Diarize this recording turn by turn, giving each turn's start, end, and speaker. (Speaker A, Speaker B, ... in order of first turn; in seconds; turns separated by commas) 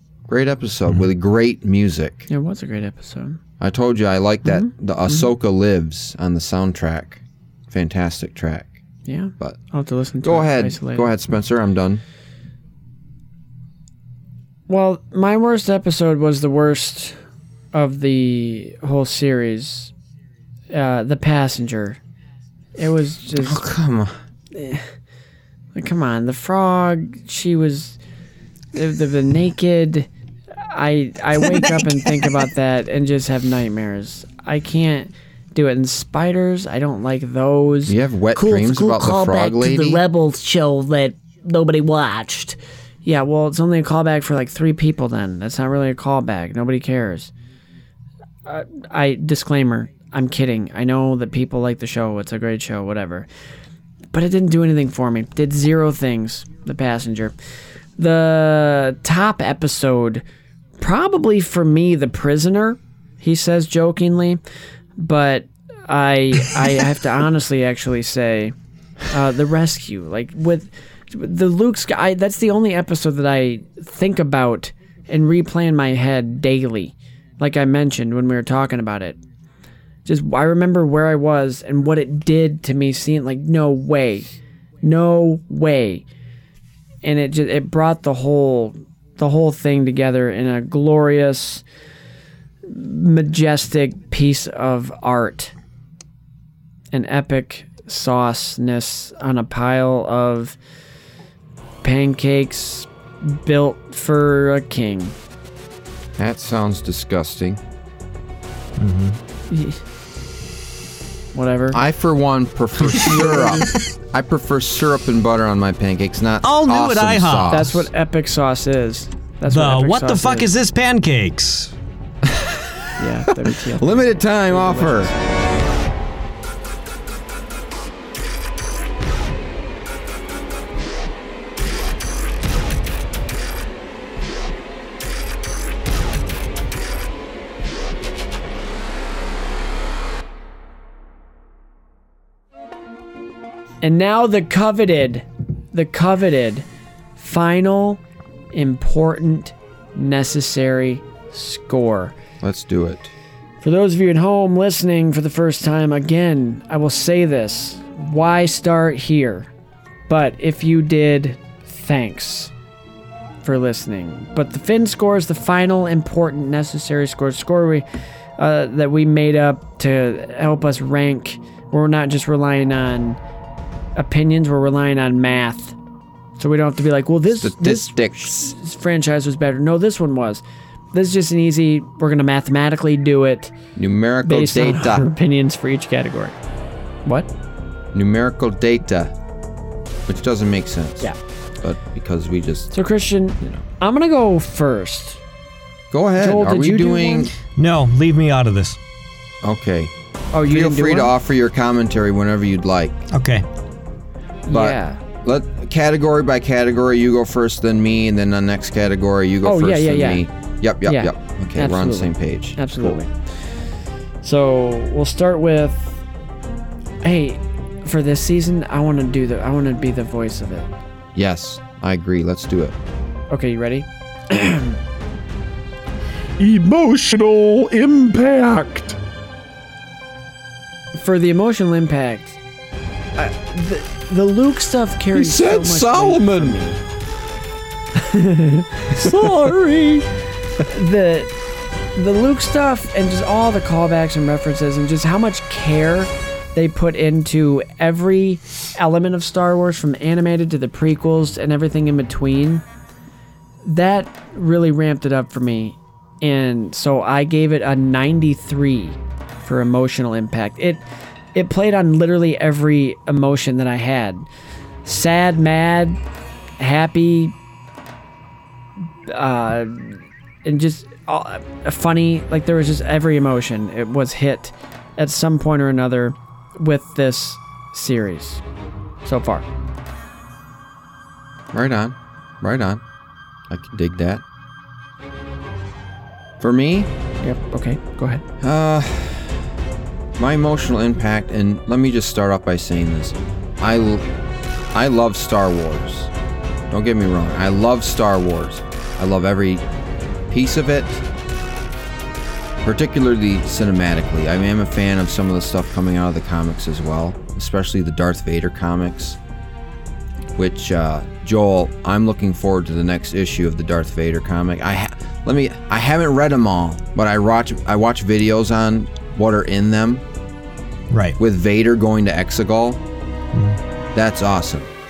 Speaker A: 0.3-2.3, Speaker B: 2.3-3.4, Speaker A: 3.6-8.8, Speaker B: 4.4-5.3, Speaker B: 9.1-11.1, Speaker A: 10.2-12.0, Speaker B: 14.7-17.2, Speaker B: 17.7-19.9, Speaker B: 20.7-22.0, Speaker B: 22.8-23.6, Speaker A: 23.4-24.2, Speaker B: 24.5-24.9, Speaker B: 25.7-28.0, Speaker B: 28.7-30.1, Speaker B: 30.7-38.0, Speaker C: 31.4-32.3, Speaker A: 37.9-40.0, Speaker D: 38.3-42.6, Speaker B: 43.0-47.3, Speaker B: 48.5-53.3, Speaker B: 54.1-57.4, Speaker B: 58.0-60.2, Speaker B: 60.8-64.4, Speaker B: 65.0-68.5, Speaker B: 69.1-79.2, Speaker B: 80.1-86.0, Speaker B: 87.0-91.6, Speaker B: 92.7-95.5, Speaker B: 96.9-100.6, Speaker B: 101.8-105.1, Speaker A: 106.2-107.6, Speaker C: 108.8-109.2, Speaker B: 109.5-109.8, Speaker B: 111.3-111.8, Speaker A: 111.7-117.8, Speaker B: 113.0-113.6, Speaker C: 116.4-117.8, Speaker B: 117.5-120.5, Speaker C: 119.5-121.8, Speaker A: 122.3-122.6, Speaker B: 123.0-125.2, Speaker A: 123.7-125.1, Speaker B: 143.8-146.7, Speaker B: 147.2-148.0, Speaker B: 148.5-152.2, Speaker A: 152.4-153.1, Speaker B: 153.6-159.5, Speaker B: 160.1-162.5, Speaker B: 163.4-167.8, Speaker B: 168.4-173.2, Speaker B: 174.0-175.8, Speaker B: 176.4-183.5, Speaker A: 177.4-178.3, Speaker A: 183.8-185.1, Speaker B: 184.2-186.4, Speaker A: 187.9-189.1, Speaker A: 190.1-192.7, Speaker B: 192.7-195.2, Speaker A: 195.9-197.3, Speaker B: 196.2-197.3, Speaker C: 197.4-198.8, Speaker A: 199.4-199.9, Speaker B: 200.3-201.1, Speaker A: 200.5-203.0, Speaker C: 203.1-203.4, Speaker B: 204.5-205.0, Speaker A: 204.5-213.0, Speaker B: 209.4-210.2, Speaker B: 210.8-213.1, Speaker B: 214.2-216.0, Speaker B: 217.0-220.7, Speaker A: 221.2-222.8, Speaker B: 223.3-224.8, Speaker E: 226.4-229.0, Speaker B: 231.0-232.4, Speaker B: 233.2-236.8, Speaker A: 235.1-236.6, Speaker B: 238.0-240.0, Speaker B: 240.7-241.3, Speaker B: 241.9-252.6, Speaker B: 253.7-260.8, Speaker B: 261.3-264.3, Speaker B: 264.9-266.0, Speaker B: 266.6-267.3, Speaker B: 269.1-278.4, Speaker B: 279.0-279.5, Speaker A: 281.5-282.8, Speaker A: 283.5-284.2, Speaker A: 286.4-286.9, Speaker B: 287.2-288.2, Speaker A: 288.4-289.4, Speaker A: 290.2-294.1, Speaker A: 294.7-296.1, Speaker A: 296.7-299.6, Speaker A: 300.3-301.0, Speaker A: 302.6-309.2, Speaker A: 310.4-320.0, Speaker C: 320.9-321.2, Speaker A: 321.2-322.8, Speaker C: 323.3-323.6, Speaker A: 323.9-324.7